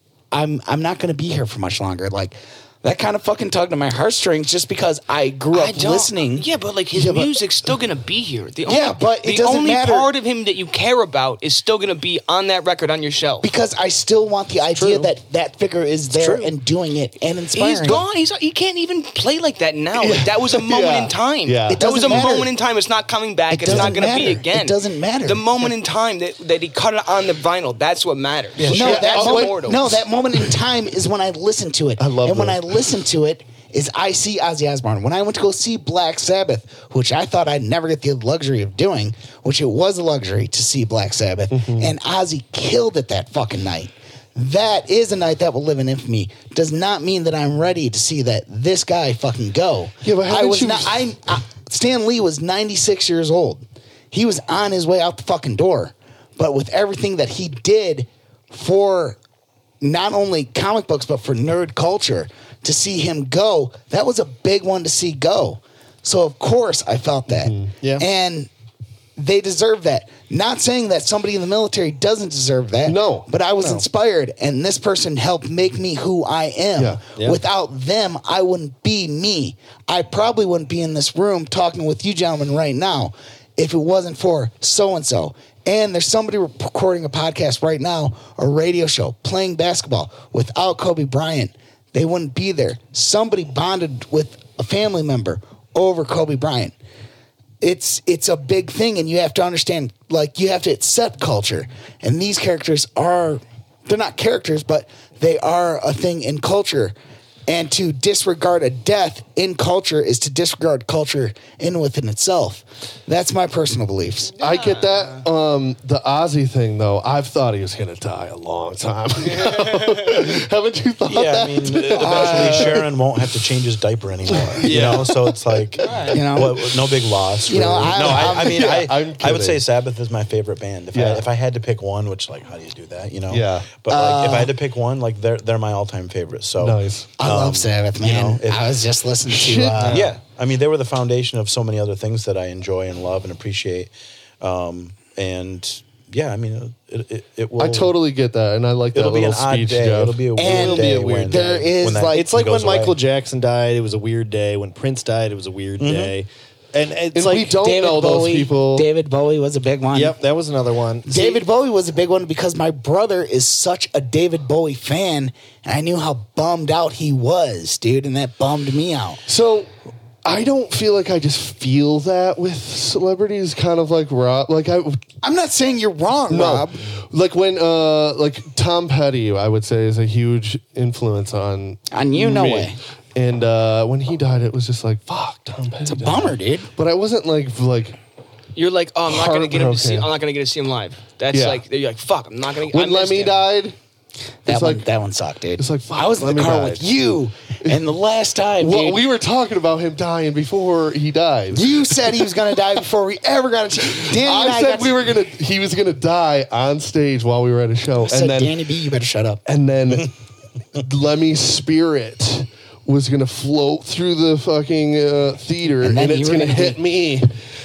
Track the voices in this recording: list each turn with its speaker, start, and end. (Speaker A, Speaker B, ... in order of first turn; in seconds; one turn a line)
Speaker A: 0.3-6.5
Speaker B: 5.5-13.5
Speaker C: 7.0-7.3
Speaker A: 8.7-10.1
Speaker A: 13.4-18.0
Speaker D: 16.2-16.5
Speaker B: 17.5-29.9
Speaker C: 20.0-22.4
Speaker A: 21.7-22.5
Speaker A: 23.5-25.4
Speaker E: 28.6-28.9
Speaker C: 28.6-29.6
Speaker A: 28.7-59.2
Speaker C: 32.0-32.6
Speaker C: 41.5-41.9
Speaker C: 50.0-51.0
Speaker A: 59.8-68.5
Speaker C: 67.3-67.7
Speaker A: 69.2-96.8
Speaker C: 72.9-73.3
Speaker A: 97.6-107.0
Speaker A: 107.5-114.4
Speaker C: 114.4-122.9
Speaker B: 114.4-115.2
Speaker B: 119.3-120.3
Speaker E: 121.1-138.7
Speaker A: 122.0-122.7
Speaker C: 124.3-125.7
Speaker D: 124.6-125.1
Speaker B: 125.8-126.2
Speaker A: 126.1-126.7
Speaker A: 127.5-128.7
Speaker C: 127.5-129.6
Speaker C: 130.9-131.3
Speaker C: 133.3-133.7
Speaker A: 133.9-134.5
Speaker C: 136.6-137.2
Speaker A: 137.2-140.1
Speaker C: 139.3-140.1
Speaker E: 139.8-147.9
Speaker C: 147.6-150.3
Speaker E: 148.9-153.0
Speaker A: 150.4-152.3
Speaker D: 150.4-151.5
Speaker D: 152.1-157.6
Speaker E: 155.8-156.1
Speaker C: 157.1-158.9
Speaker A: 157.6-160.2
Speaker D: 159.9-161.4
Speaker A: 161.1-169.2
Speaker C: 169.3-169.7
Speaker C: 170.2-175.0
Speaker A: 175.2-176.8
Speaker C: 176.3-188.0
Speaker A: 181.9-182.8
Speaker A: 185.8-186.7
Speaker B: 188.6-193.5
Speaker C: 189.1-190.1
Speaker C: 191.3-191.6
Speaker C: 192.7-193.8
Speaker A: 194.5-199.0
Speaker C: 194.5-194.8
Speaker C: 195.6-196.9
Speaker C: 198.6-201.8
Speaker A: 201.5-205.0
Speaker C: 204.0-208.6
Speaker A: 208.0-209.4
Speaker C: 209.5-210.1
Speaker C: 210.8-217.3
Speaker A: 215.8-216.8